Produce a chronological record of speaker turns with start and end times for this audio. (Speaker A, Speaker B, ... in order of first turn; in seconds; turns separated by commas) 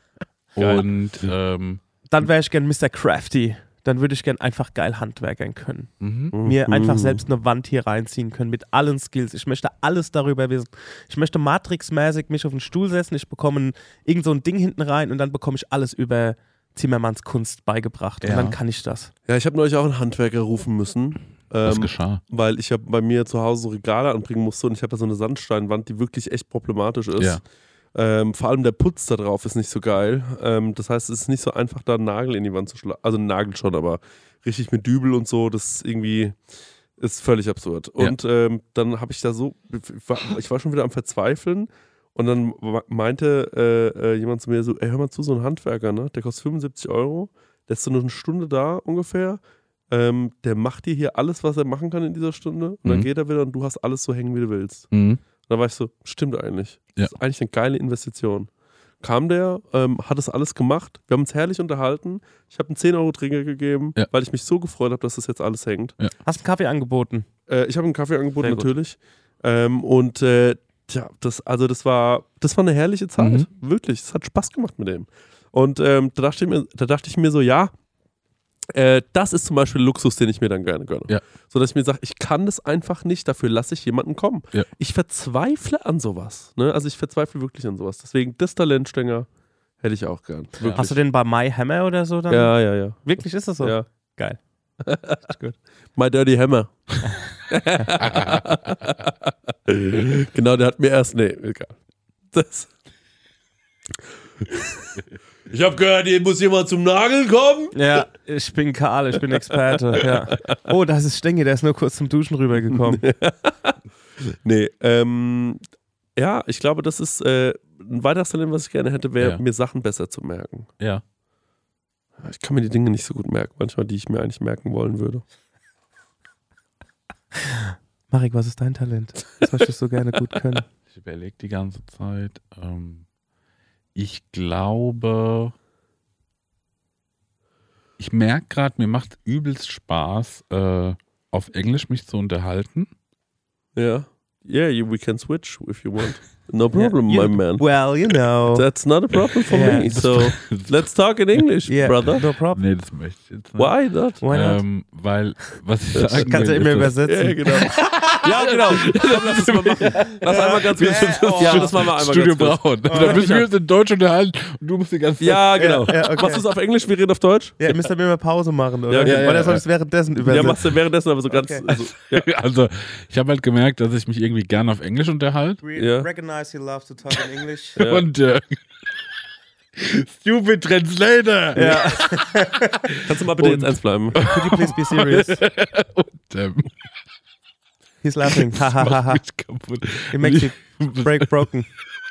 Speaker A: 0.6-1.8, Speaker B: 0.6-0.9, Speaker C: 2.1-19.1, Speaker A: 6.0-6.3, Speaker B: 6.3-7.2, Speaker A: 18.2-18.6, Speaker B: 19.3-27.4, Speaker A: 21.6-22.2, Speaker A: 27.2-27.4, Speaker B: 27.9-36.4, Speaker B: 37.0-49.4, Speaker B: 49.9-54.9, Speaker A: 54.9-55.2, Speaker B: 55.4-58.5, Speaker B: 59.0-65.9, Speaker C: 66.2-67.3, Speaker B: 67.5-77.7, Speaker C: 68.4-68.7, Speaker A: 73.2-73.5, Speaker B: 78.7-89.3, Speaker B: 89.8-91.0, Speaker A: 90.6-90.9, Speaker C: 90.7-94.4, Speaker B: 92.3-93.9, Speaker B: 94.8-95.2, Speaker C: 95.3-95.6, Speaker B: 96.0-101.8, Speaker A: 98.0-98.5, Speaker B: 102.3-102.7, Speaker B: 104.5-107.8, Speaker C: 107.7-113.0, Speaker B: 109.5-110.6, Speaker B: 112.7-113.8, Speaker B: 114.3-115.6, Speaker B: 116.2-120.7, Speaker B: 122.2-125.2, Speaker C: 127.4-130.6, Speaker A: 130.9-133.0, Speaker A: 133.9-135.6, Speaker A: 138.0-142.9, Speaker B: 143.8-147.7, Speaker C: 146.7-148.7, Speaker B: 148.5-152.2, Speaker A: 149.4-150.7, Speaker C: 149.5-149.9, Speaker C: 151.7-152.6, Speaker A: 152.1-153.7, Speaker B: 153.6-154.2, Speaker C: 154.2-154.6, Speaker A: 154.3-165.5, Speaker B: 155.9-156.4, Speaker C: 156.1-158.1, Speaker B: 157.0-163.4, Speaker C: 160.3-161.8, Speaker C: 162.9-163.3, Speaker B: 165.2-167.7, Speaker C: 165.6-166.4, Speaker C: 167.6-170.6, Speaker B: 168.9-169.6, Speaker A: 169.0-169.6, Speaker B: 170.2-172.3, Speaker C: 171.3-171.7, Speaker A: 172.1-175.6, Speaker C: 175.6-177.8, Speaker B: 175.8-176.1, Speaker B: 177.8-178.1, Speaker A: 177.8-178.6, Speaker A: 179.8-186.7, Speaker C: 181.6-182.9, Speaker B: 183.0-184.3, Speaker C: 184.2-185.4, Speaker C: 188.0-189.2, Speaker A: 188.3-191.4, Speaker C: 190.1-191.7